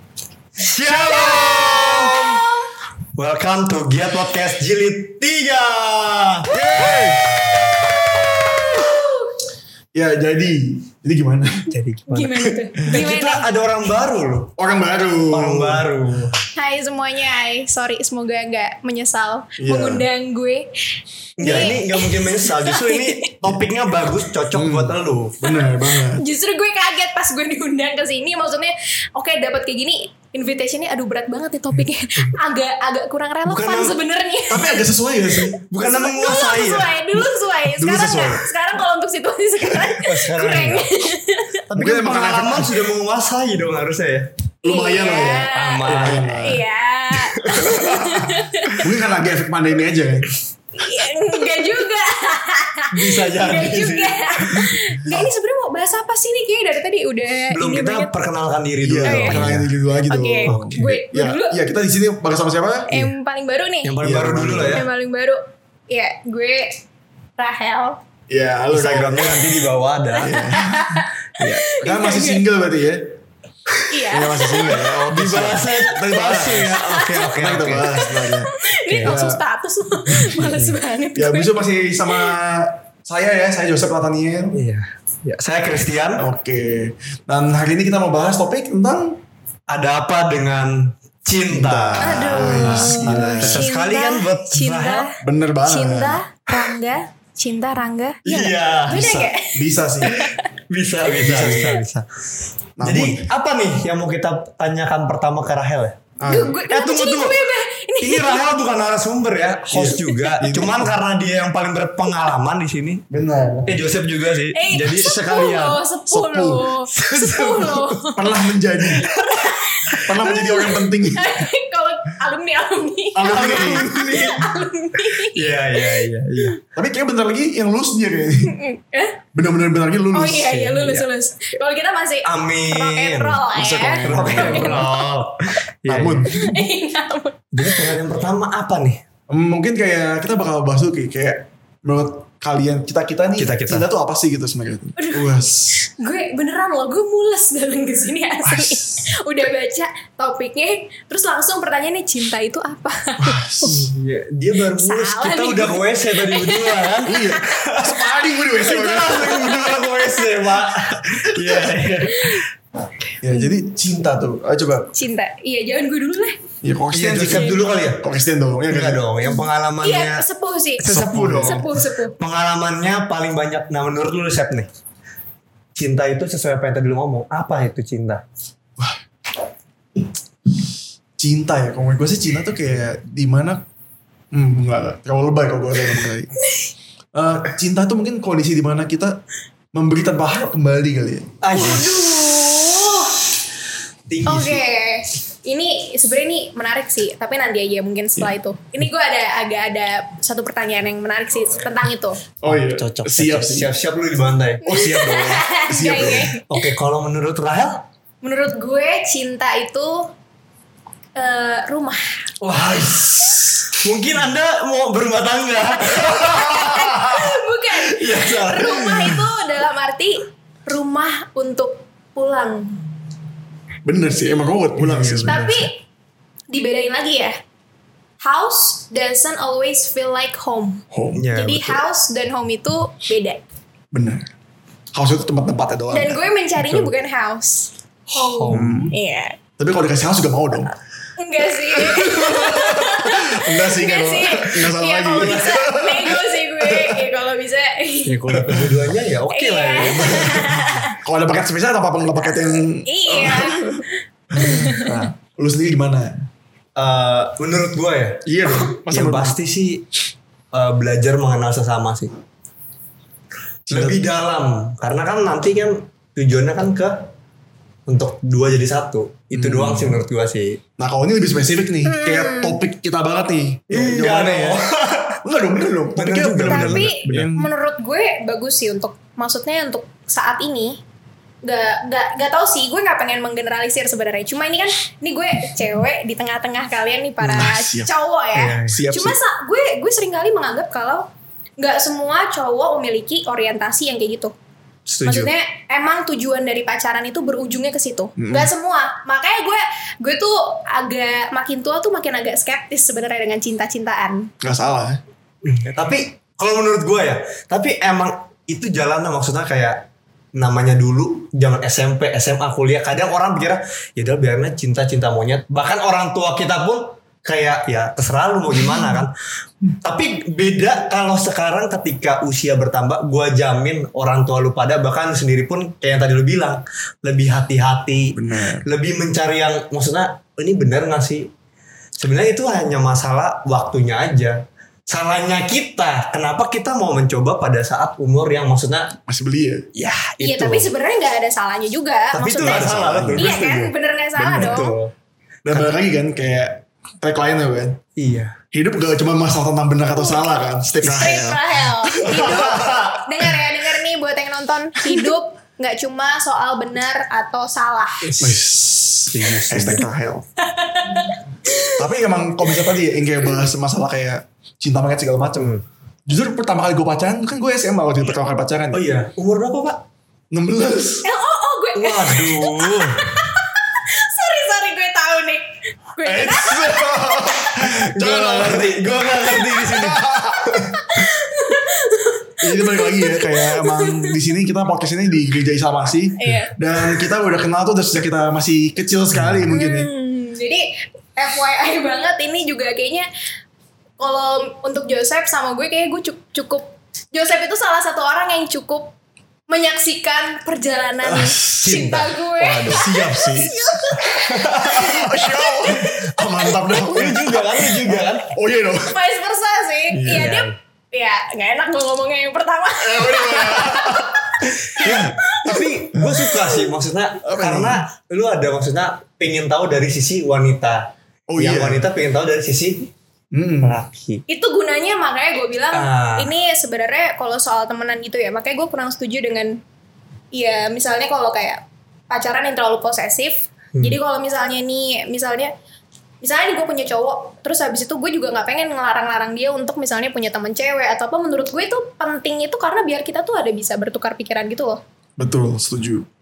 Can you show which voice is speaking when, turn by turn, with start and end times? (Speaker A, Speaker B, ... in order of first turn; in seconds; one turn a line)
Speaker A: 0.6-2.4
Speaker B: 0.8-2.7
Speaker C: 0.9-1.8
Speaker A: 3.1-7.1
Speaker C: 6.5-7.4
Speaker B: 8.7-9.3
Speaker C: 9.9-11.7
Speaker A: 11.7-14.5
Speaker B: 12.1-13.4
Speaker C: 14.6-15.8
Speaker A: 15.3-16.3
Speaker B: 16.6-20.7
Speaker C: 19.6-20.1
Speaker B: 21.4-23.3
Speaker A: 21.4-25.4
Speaker C: 24.5-26.2
Speaker B: 25.4-34.8
Speaker A: 33.5-34.0
Speaker C: 34.5-35.6
Speaker B: 35.4-41.6
Speaker A: 35.7-37.0
Speaker C: 37.7-38.5
Speaker A: 39.7-41.0
Speaker A: 41.7-44.3
Speaker C: 41.7-42.8
Speaker B: 44.6-48.8
Speaker C: 44.6-46.6
Speaker A: 45.5-46.3
Speaker A: 47.5-47.9
Speaker C: 47.7-50.3
Speaker B: 50.8-58.1
Speaker A: 52.9-54.7
Speaker A: 57.5-59.7
Speaker C: 58.8-63.1
Speaker B: 59.0-59.4
Speaker B: 60.1-61.6
Speaker A: 60.5-60.9
Speaker B: 62.9-64.0
Speaker A: 63.8-64.8
Speaker C: 64.0-64.8
Speaker B: 64.7-66.8
Speaker B: 67.4-68.0
Speaker C: 68.3-69.5
Speaker A: 68.7-70.6
Speaker B: 69.1-69.5
Speaker B: 70.1-72.4
Speaker C: 70.2-73.0
Speaker B: 73.9-74.9
Speaker C: 74.1-78.5
Speaker A: 75.1-78.1
Speaker B: 75.5-82.3
Speaker A: 78.9-79.2
Speaker C: 79.0-79.4
Speaker C: 80.2-80.5
Speaker A: 80.2-80.8
Speaker C: 81.1-84.6
Speaker A: 84.5-86.3
Speaker C: 86.2-89.2
Speaker A: 89.7-95.1
Speaker C: 91.5-93.7
Speaker B: 92.0-100.5
Speaker C: 95.2-96.2
Speaker A: 98.2-99.2
Speaker C: 98.9-100.1
Speaker A: 100.7-102.0
Speaker C: 101.2-101.8
Speaker B: 101.4-101.8
Speaker C: 102.8-103.3
Speaker A: 102.8-107.5
Speaker C: 106.2-106.5
Speaker B: 106.2-108.4
Speaker A: 108.0-113.0
Speaker C: 109.7-111.0
Speaker B: 109.9-110.4
Speaker C: 113.1-113.9
Speaker A: 113.7-115.8
Speaker B: 114.5-126.5
Speaker C: 116.1-116.7
Speaker A: 117.0-117.9
Speaker C: 118.1-119.4
Speaker C: 119.9-121.4
Speaker C: 123.1-124.2
Speaker A: 123.3-124.4
Speaker A: 125.2-126.6
Speaker C: 126.7-128.6
Speaker B: 128.4-129.2
Speaker C: 129.3-130.6
Speaker B: 130.1-135.0
Speaker A: 130.4-131.1
Speaker A: 132.2-136.3
Speaker C: 133.6-134.9
Speaker C: 135.9-136.6
Speaker B: 136.3-138.0
Speaker A: 137.5-139.0
Speaker C: 139.3-145.8
Speaker A: 143.3-143.9
Speaker B: 145.0-153.8
Speaker C: 148.4-149.1
Speaker C: 153.2-153.8
Speaker A: 153.7-162.4
Speaker B: 154.7-157.4
Speaker C: 157.1-160.2
Speaker C: 161.0-162.0
Speaker B: 162.1-162.4
Speaker C: 163.2-164.9
Speaker B: 164.9-166.4
Speaker C: 166.6-169.0
Speaker A: 166.9-168.1
Speaker B: 167.3-167.7
Speaker A: 168.7-170.2
Speaker B: 169.2-172.2
Speaker A: 170.8-174.7
Speaker C: 170.8-171.8
Speaker A: 175.8-178.2
Speaker C: 181.2-183.6
Speaker C: 184.3-186.3
Speaker C: 187.1-189.2
Speaker C: 189.7-191.8
Speaker A: 191.4-193.0
Speaker B: 191.6-193.2
Speaker A: 194.1-194.6
Speaker B: 194.2-202.2
Speaker C: 202.4-203.7
Speaker A: 202.4-205.2
Speaker B: 204.6-206.6
Speaker C: 204.7-206.3
Speaker A: 206.5-207.8
Speaker B: 208.2-210.1
Speaker B: 211.2-212.1
Speaker A: 212.4-217.1
Speaker B: 215.7-222.8
Speaker A: 218.0-219.1
Speaker C: 223.8-225.7
Speaker A: 224.8-225.5
Speaker B: 225.2-225.8
Speaker B: 226.5-227.3
Speaker B: 228.2-233.4
Speaker C: 230.9-231.3
Speaker A: 231.1-231.9
Speaker C: 233.9-234.3
Speaker C: 234.9-236.2
Speaker B: 235.9-239.4
Speaker A: 236.6-236.9
Speaker A: 238.3-238.8
Speaker C: 238.5-238.9
Speaker C: 239.6-240.7
Speaker B: 241.2-248.3
Speaker C: 241.7-247.0
Speaker A: 248.1-250.6
Speaker C: 248.3-248.8
Speaker B: 249.3-251.0
Speaker C: 250.0-256.2
Speaker B: 252.2-255.1
Speaker A: 256.8-259.8
Speaker C: 258.2-259.4
Speaker A: 260.5-262.1
Speaker C: 263.7-264.0
Speaker A: 263.7-267.1
Speaker A: 267.9-270.6
Speaker C: 269.3-270.0
Speaker C: 270.8-277.5
Speaker B: 271.9-272.6
Speaker A: 273.7-275.0
Speaker A: 275.9-277.3
Speaker B: 276.4-280.8
Speaker B: 281.4-291.1
Speaker C: 287.2-287.9
Speaker A: 288.3-288.8
Speaker C: 288.7-289.2
Speaker B: 291.6-294.3
Speaker A: 294.9-295.3
Speaker B: 295.0-304.3
Speaker C: 298.2-298.5
Speaker C: 304.4-305.0
Speaker A: 305.4-309.8
Speaker A: 310.3-319.1
Speaker A: 319.8-331.3
Speaker C: 328.1-328.7
Speaker A: 332.0-334.4
Speaker A: 334.9-338.9
Speaker C: 339.1-339.6
Speaker A: 339.7-340.7
Speaker B: 340.2-344.8
Speaker A: 342.1-344.9
Speaker C: 342.4-343.3
Speaker C: 345.4-347.8
Speaker A: 345.5-345.8
Speaker A: 347.9-348.4
Speaker C: 348.5-353.4
Speaker B: 350.0-350.3
Speaker A: 350.8-351.2
Speaker B: 350.9-358.1
Speaker A: 358.0-359.9
Speaker C: 358.2-360.2
Speaker B: 360.4-361.8
Speaker C: 361.8-365.5
Speaker A: 365.4-365.6
Speaker C: 366.1-368.8
Speaker A: 368.7-369.8
Speaker C: 370.3-371.1
Speaker B: 371.0-377.5
Speaker A: 371.8-373.0
Speaker C: 376.0-380.6
Speaker A: 377.8-380.9
Speaker B: 380.7-384.2
Speaker C: 382.4-389.9
Speaker B: 386.2-387.0
Speaker B: 389.5-393.1
Speaker B: 394.0-398.9
Speaker B: 399.5-406.9
Speaker C: 401.0-401.8
Speaker A: 401.6-402.9
Speaker C: 402.7-403.8
Speaker A: 404.1-405.0
Speaker C: 404.4-409.0
Speaker A: 406.8-408.3
Speaker B: 408.9-416.7
Speaker C: 409.9-410.3
Speaker A: 410.1-410.5
Speaker C: 412.8-415.2
Speaker A: 414.8-422.9
Speaker C: 417.2-417.8
Speaker C: 421.3-421.8
Speaker C: 423.3-423.8
Speaker A: 423.6-424.2
Speaker B: 424.3-429.6
Speaker A: 425.7-426.3
Speaker B: 430.3-435.5
Speaker B: 436.2-444.8
Speaker C: 445.2-446.1